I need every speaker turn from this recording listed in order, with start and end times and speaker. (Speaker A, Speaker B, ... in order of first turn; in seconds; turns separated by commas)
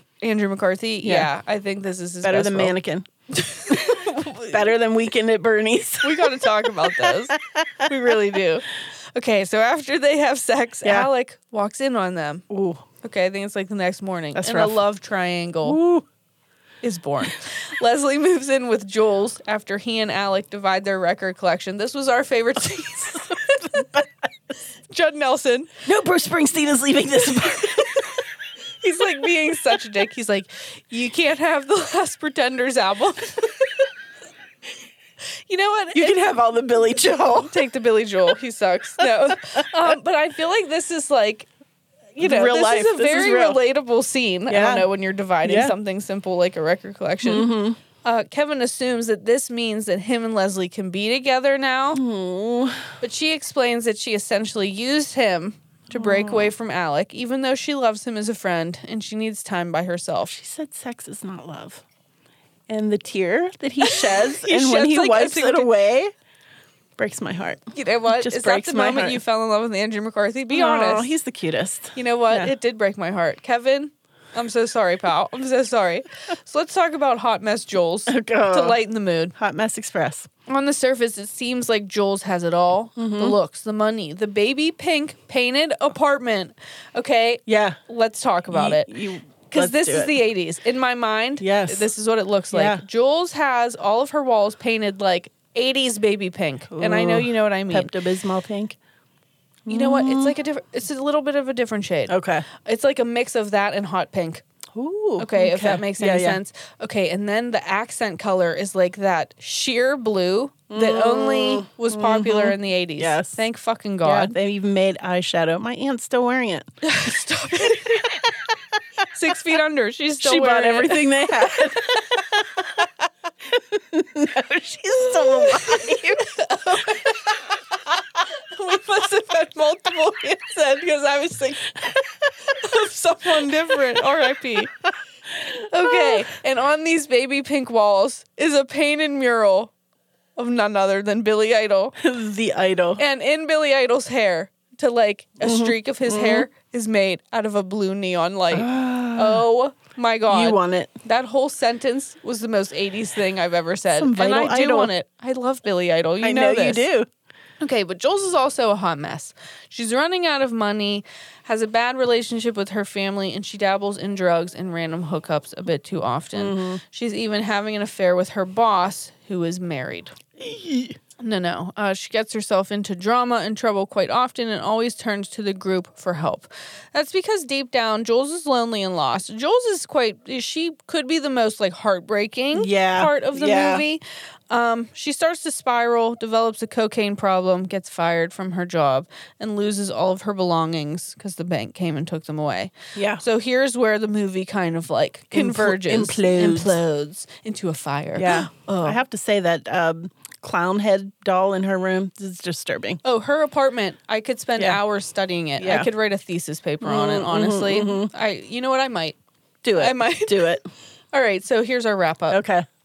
Speaker A: 0.2-2.7, Speaker B: 1.0-1.3, Speaker B: 2.2-3.0, Speaker A: 3.3-4.7, Speaker B: 3.7-7.9, Speaker A: 6.0-12.4, Speaker B: 10.8-11.1, Speaker B: 12.5-12.8, Speaker A: 13.0-15.8, Speaker B: 14.3-14.8, Speaker B: 15.6-16.1, Speaker A: 16.8-23.9, Speaker B: 23.6-24.1, Speaker A: 24.9-25.7, Speaker B: 25.8-28.1, Speaker A: 27.4-28.1, Speaker A: 28.8-33.9, Speaker A: 35.5-36.3, Speaker B: 35.9-37.6, Speaker A: 37.4-41.5, Speaker A: 42.1-47.5, Speaker B: 42.2-43.6, Speaker B: 44.5-44.9, Speaker B: 45.4-45.7, Speaker B: 47.2-47.8, Speaker A: 48.0-52.0, Speaker B: 51.9-52.9, Speaker A: 53.0-60.3, Speaker B: 55.9-56.5, Speaker B: 60.3-61.8, Speaker B: 62.7-66.1, Speaker A: 63.8-65.7, Speaker B: 67.0-69.2, Speaker A: 67.7-71.1, Speaker B: 70.5-72.5, Speaker A: 71.9-79.3, Speaker B: 78.1-78.8, Speaker B: 79.3-80.3, Speaker A: 80.5-88.9, Speaker B: 83.0-83.4, Speaker B: 87.5-87.8, Speaker B: 88.5-90.2, Speaker A: 89.5-97.9, Speaker B: 91.4-91.9, Speaker B: 92.5-92.8, Speaker B: 96.7-98.8, Speaker B: 99.7-100.3, Speaker A: 99.7-104.4, Speaker B: 102.1-102.5, Speaker B: 104.7-106.4, Speaker A: 105.2-114.3, Speaker B: 110.7-113.4, Speaker B: 114.0-116.7, Speaker A: 116.8-118.3, Speaker A: 119.1-121.3, Speaker B: 120.2-122.9, Speaker B: 123.5-127.0, Speaker A: 125.2-127.4, Speaker A: 128.5-134.7, Speaker A: 135.7-139.7, Speaker B: 135.8-136.2, Speaker A: 140.4-141.9, Speaker B: 142.0-143.0, Speaker A: 143.0-156.8, Speaker B: 145.4-146.5, Speaker B: 148.5-149.4, Speaker B: 150.3-150.9, Speaker B: 153.9-154.9, Speaker B: 156.2-157.1, Speaker A: 157.6-170.2, Speaker B: 166.3-166.8, Speaker B: 170.4-171.0, Speaker A: 171.2-199.0, Speaker B: 182.5-183.8, Speaker B: 192.9-193.2, Speaker B: 195.3-196.8, Speaker B: 198.2-203.0, Speaker A: 203.0-209.2, Speaker B: 205.6-205.9, Speaker B: 206.8-208.1, Speaker B: 209.6-210.7, Speaker A: 209.7-210.6, Speaker A: 211.1-212.4, Speaker B: 212.3-212.7